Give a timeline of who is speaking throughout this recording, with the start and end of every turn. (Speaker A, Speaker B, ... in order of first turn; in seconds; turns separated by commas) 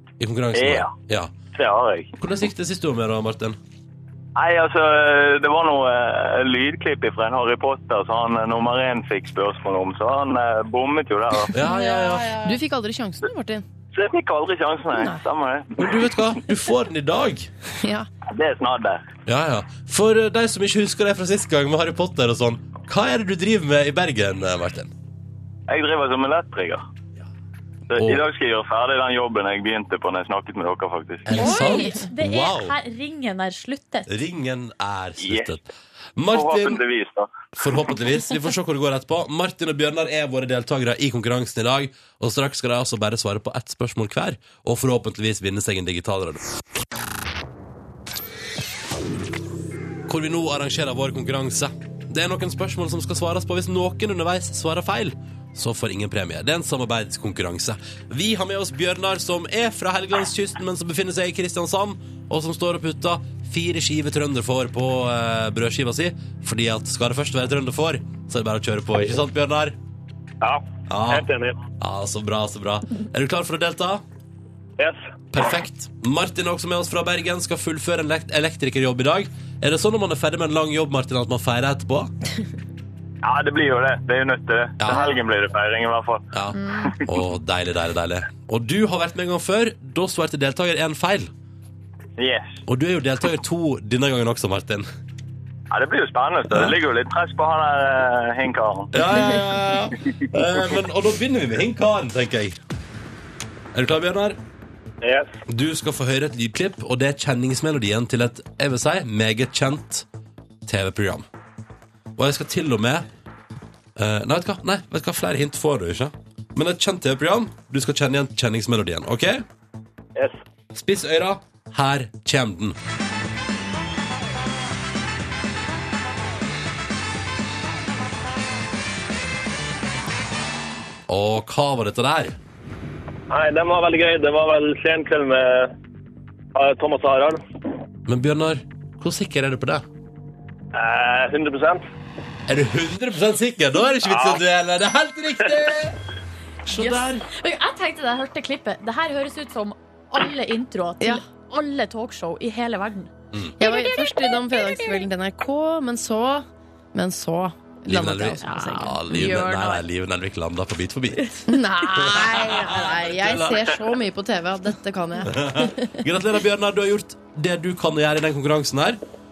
Speaker A: 0.2-1.3, Speaker B: 0.5-0.9, Speaker B: 1.5-2.1, Speaker A: 2.2-3.6, Speaker B: 4.3-11.5, Speaker A: 11.5-12.5, Speaker C: 11.6-13.6, Speaker B: 13.9-16.1, Speaker C: 14.9-15.2, Speaker A: 15.8-17.5, Speaker C: 17.8-18.1, Speaker B: 18.3-19.0, Speaker A: 19.3-24.9, Speaker B: 25.7-26.8, Speaker B: 27.9-31.5, Speaker A: 27.9-28.2, Speaker A: 31.2-32.8, Speaker D: 31.3-34.1, Speaker C: 31.5-31.9, Speaker A: 34.1-36.8, Speaker B: 35.2-35.5, Speaker B: 36.3-37.3, Speaker A: 37.5-46.4, Speaker A: 50.1-69.8, Speaker E: 70.4-71.6, Speaker A: 70.9-71.3, Speaker A: 71.8-74.0, Speaker E: 74.8-75.0, Speaker A: 75.3-82.1, Speaker B: 83.2-86.2, Speaker A: 84.8-85.1, Speaker A: 86.3-91.3, Speaker D: 86.5-87.0, Speaker B: 92.2-92.6, Speaker A: 92.7-94.9, Speaker B: 95.7-98.9, Speaker A: 98.9-102.6, Speaker A: 103.7-104.4, Speaker E: 105.0-105.3, Speaker A: 105.5-110.0, Speaker A: 110.7-111.2, Speaker A: 112.2-113.0, Speaker A: 114.0-119.4, Speaker A: 120.7-122.8, Speaker A: 131.1-132.4, Speaker E: 133.3-135.7, Speaker E: 136.5-137.4, Speaker A: 138.1-139.8, Speaker E: 140.7-141.8, Speaker A: 142.5-146.0, Speaker E: 144.0-144.4, Speaker A: 146.7-147.2, Speaker D: 146.7-155.1, Speaker C: 153.6-159.4, Speaker A: 157.9-161.4, Speaker D: 158.4-159.8, Speaker C: 161.4-166.0, Speaker A: 162.0-163.7, Speaker A: 165.2-169.0